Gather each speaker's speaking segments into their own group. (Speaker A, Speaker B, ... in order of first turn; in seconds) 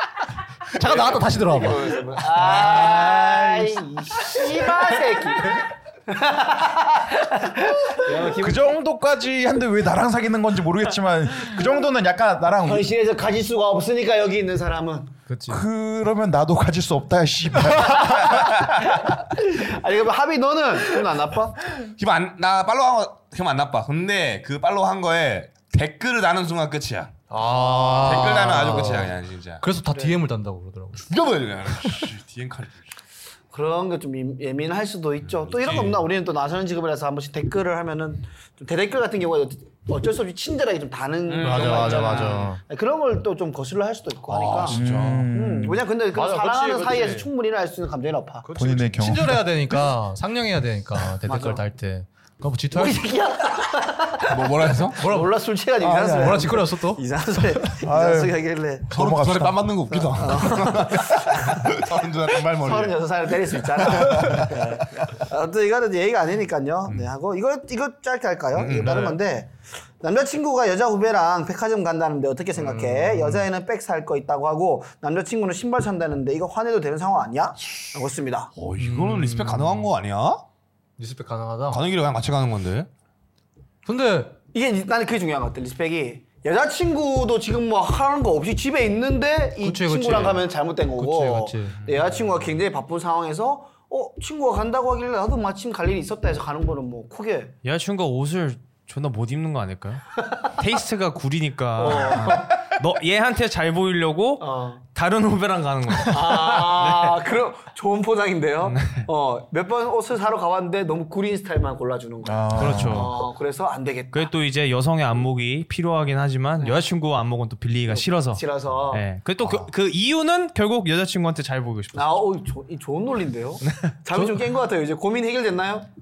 Speaker A: 0.7-2.0, 15.3-15.6, 27.3-31.1, 41.4-42.6, 46.1-47.3, 48.4-53.1, 55.0-55.4, 55.9-57.0, 72.6-73.4, 78.8-79.9, 81.0-81.8, 83.8-84.3, 89.6-91.8
Speaker B: 0.8-8.8, 12.6-15.2, 18.1-21.6, 27.8-28.2, 29.9-30.2, 33.5-48.5, 51.2-51.6, 52.7-58.9, 60.0-78.5, 84.5-97.5, 101.8-102.6, 104.4-104.8, 106.0-114.3, 117.9-119.0, 121.9-125.9
Speaker C: 2.4-3.1, 21.7-27.2, 27.9-29.6, 30.9-32.9, 35.4-36.0, 41.3-42.5, 44.3-45.3, 54.3-55.0, 58.9-63.0, 63.6-64.7, 68.5-69.2, 78.5-80.4, 81.7-82.9
Speaker D: 8.3-12.9, 15.5-18.9, 44.6-45.8, 48.5-49.5, 55.8-56.5, 57.7-58.4, 58.9-59.8, 112.2-113.1
Speaker E: 97.6-107.2, 108.6-109.1, 112.5-113.2, 114.1-122.1, 123.7-123.9